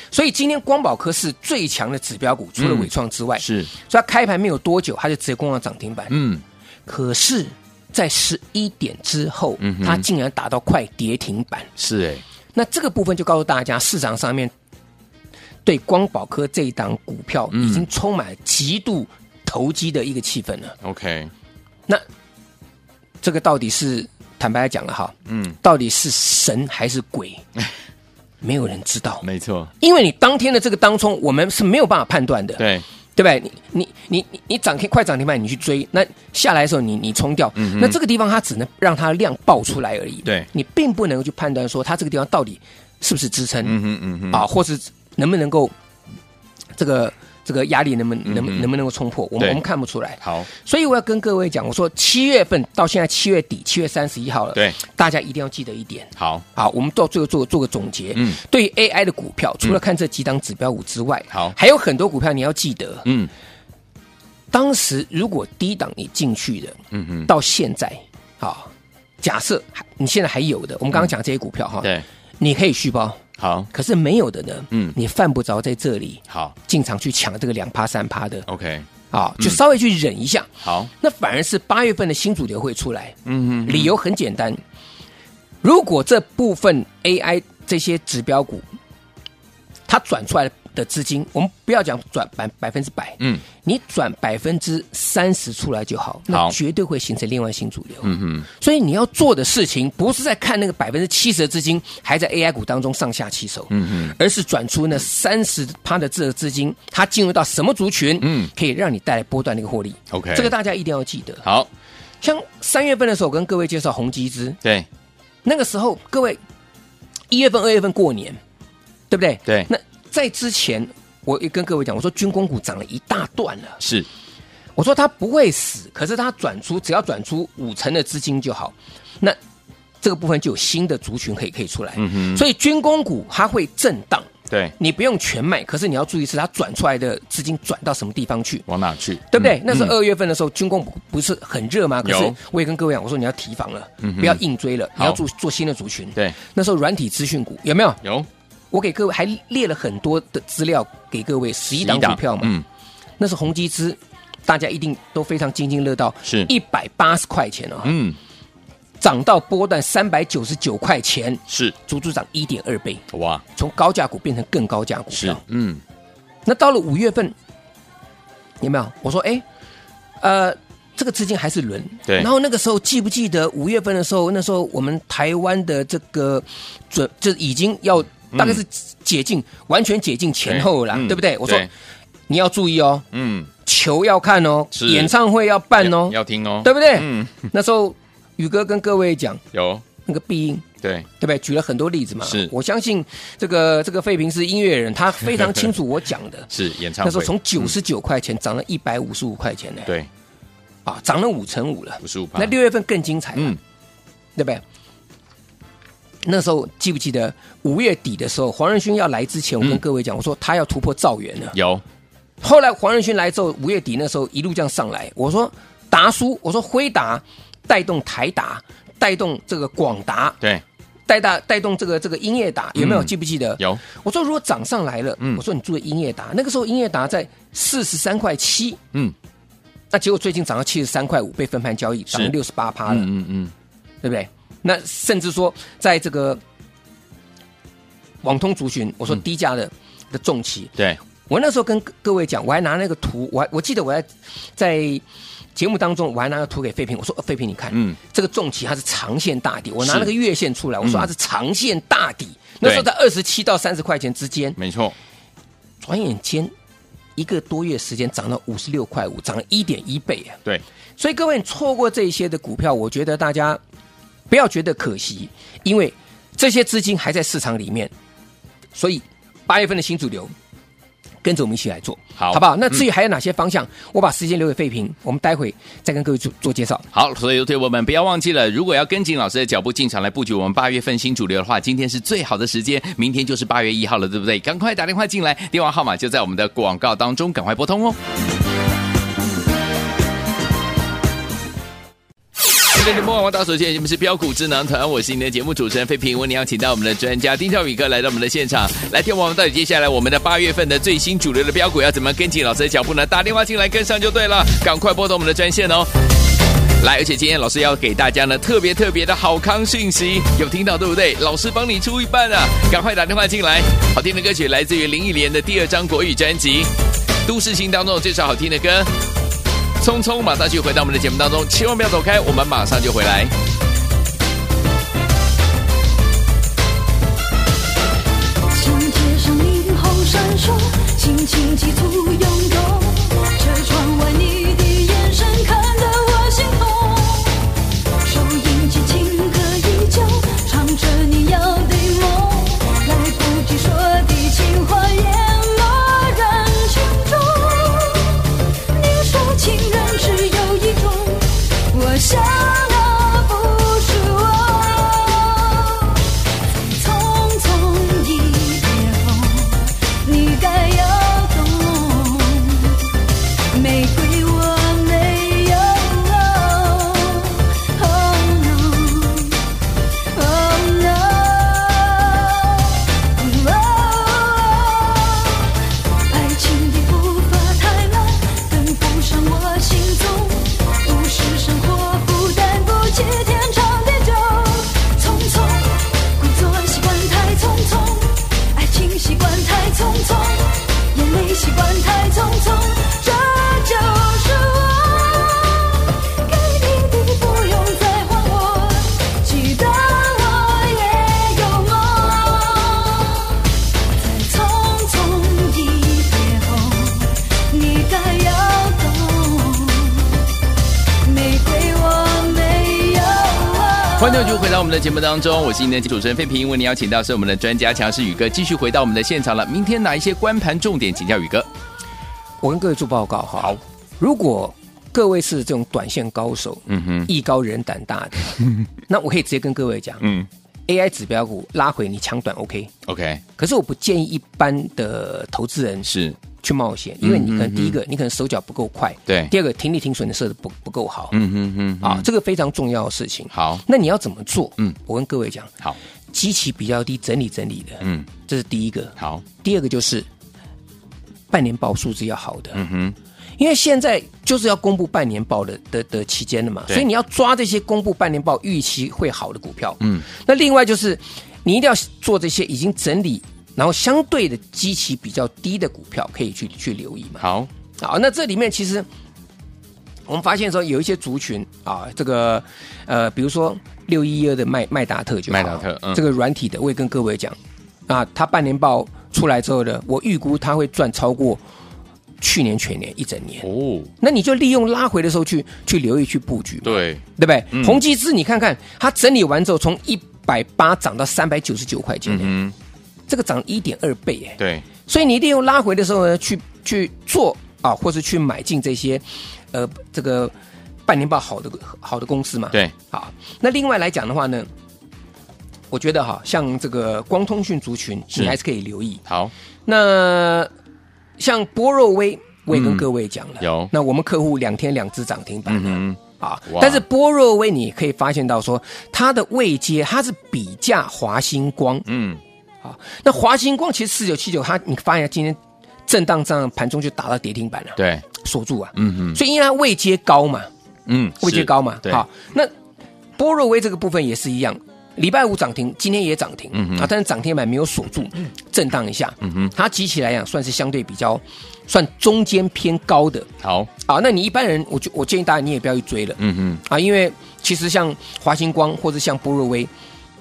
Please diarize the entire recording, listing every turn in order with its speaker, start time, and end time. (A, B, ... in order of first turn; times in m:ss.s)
0:00.1-0:06.2 A
0:02.6-0:03.7 B
0:06.1-0:06.4 B
0:06.9-0:11.7 A
0:09.6-0:10.0 B
0:11.8-0:12.2 B
0:12.5-0:14.5 A
0:15.6-0:20.8 A
0:17.5-0:17.9 B
0:20.8-0:21.3 B
0:23.2-0:27.4 A
0:25.3-0:25.6 B
0:28.4-0:29.2 A
0:29.2-0:29.7 B
0:29.8-0:43.8 A
0:32.6-0:32.8 B
0:37.6-0:38.0 B
0:43.6-0:44.4 B
0:44.3-0:45.7 A
0:46.8-1:03.1 A
0:48.2-0:48.7 B
0:50.2-0:50.5 B
0:56.2-0:56.4 B
1:03.0-1:03.3 B
1:04.5-1:08.7 A
1:06.9-1:07.3 B
1:09.2-1:18.5 A
1:13.4-1:13.7 B
1:14.7-1:15.0 B
1:18.5-1:18.9 B
1:19.1-1:24.6 A
1:20.6-1:20.9 B
1:23.3-1:23.9 B
1:25.6-1:28.7 A
1:29.9-1:51.4 A
1:38.0-1:38.5 B
1:43.7-1:44.2 B
1:48.2-1:48.5 B
1:50.1-1:50.5 B
1:52.2-1:54.6 A
1:55.4-1:56.4 A
1:57.3-1:58.4 A
1:59.1-2:03.8 A
2:03.8-2:04.1 B
2:04.8-2:09.4 A
2:10.0-2:18.6 A
2:12.0-2:12.4 B
2:18.7-2:19.9 B
2:19.3-2:28.0 A
2:22.0-2:22.4 B
2:24.0-2:24.4 B
2:28.7-2:32.5 A
2:31.8-2:32.6 B
2:33.2-2:37.9 A
2:37.8-2:38.2 B
2:39.0-2:43.0 A
2:41.5-2:41.7 B
2:43.1-2:43.4 B
2:43.5-2:45.4 A
2:45.1-2:45.8 B
2:46.5-2:47.4 A
2:48.6-2:49.4 A
2:50.2-3:01.7 A
2:58.3-2:58.6 B
3:00.4-3:01.7 B
3:02.3-3:03.0 A
3:03.1-3:03.5 B
3:03.6-3:09.4 A
3:04.7-3:05.1 B
3:05.8-3:07.4 B
3:09.5-3:09.8 B
3:10.0-3:10.6 A
3:10.8-3:11.1 B
3:11.2-3:19.9 A
3:12.2-3:12.5 B
3:16.5-3:17.7 B
3:20.8-3:23.6 A
3:22.0-3:22.5 B
3:24.4-3:24.6 A
3:26.2-3:31.6 A
3:31.5-3:31.8 B
3:32.4-3:40.4 A
3:41.1-3:48.8 A
3:42.8-3:43.8 B
3:49.9-3:53.1 A
3:52.9-3:53.5 B
3:54.0-3:56.4 A
3:58.2-4:00.8 A
4:01.3-4:05.0 A
4:05.6-4:14.6 A
4:07.7-4:08.0 B
4:09.8-4:10.1 B
4:10.8-4:11.1 B
4:14.6-4:15.0 B
4:15.8-4:16.5 A
4:17.2-4:20.4 A
4:21.0-4:23.6 A
4:24.3-4:27.9 A
4:28.8-4:30.3 A
4:31.2-4:36.8 A
4:32.2-4:32.8 B
4:36.9-4:48.0 B
4:52.7-5:05.9 B
5:06.8-5:16.7 B
5:17.2-5:18.9 B
5:19.8-5:23.3 B
5:28.5-5:37.4 C
5:38.0-5:48.2 C
5:48.7-5:55.8 C
5:56.7-6:02.6 C
6:03.5-6:09.3 C
6:10.1-6:12.6 C
6:13.2-6:15.4 C
6:16.1-6:43.3 C
6:44.1-6:50.0 C
6:51.0-6:54.1 C
6:54.0-7:01.5 B
7:02.4-7:08.3 A
7:06.7-7:07.1 B
7:08.9-7:10.0 A
7:10.0-7:10.3 B
7:10.7-7:12.7 A
7:12.9-7:13.2 B
7:13.4-7:21.2 A
7:15.9-7:16.2 B
7:17.0-7:17.8 B
7:21.1-7:22.1 B
7:21.8-7:25.5 A
7:23.3-7:23.6 B
7:26.1-7:30.1 A
7:27.8-7:28.1 B
7:29.0-7:29.2 B
7:31.3-7:32.6 A
7:32.5-7:33.0 B
7:33.4-7:47.2 A
7:47.2-7:47.5 B
7:47.8-7:48.9 A
7:50.1-7:57.4 A
7:55.3-7:56.0 B
7:57.9-8:01.4 A
8:02.2-8:03.4 A
8:03.4-8:03.9 B
8:04.0-8:12.3 A
8:06.6-8:07.8 B
8:12.1-8:12.5 B
8:13.1-8:20.3 A
8:14.4-8:14.7 B
8:20.9-8:24.5 A
8:25.7-8:29.0 A
8:29.0-8:29.3 B
8:29.7-8:30.5 A
8:31.2-8:41.8 A
8:32.5-8:32.9 B
8:33.4-8:33.7 B
8:35.5-8:36.8 B
8:41.9-8:42.2 B
8:42.6-8:50.5 A
8:47.8-8:48.1 B
8:48.8-8:49.2 B
8:50.9-8:52.0 B
8:51.2-8:52.5 A
8:53.2-9:03.3 A
8:56.5-8:56.9 B
8:59.2-8:59.5 B
9:03.4-9:03.7 B
9:03.8-9:09.7 A
9:06.2-9:06.6 B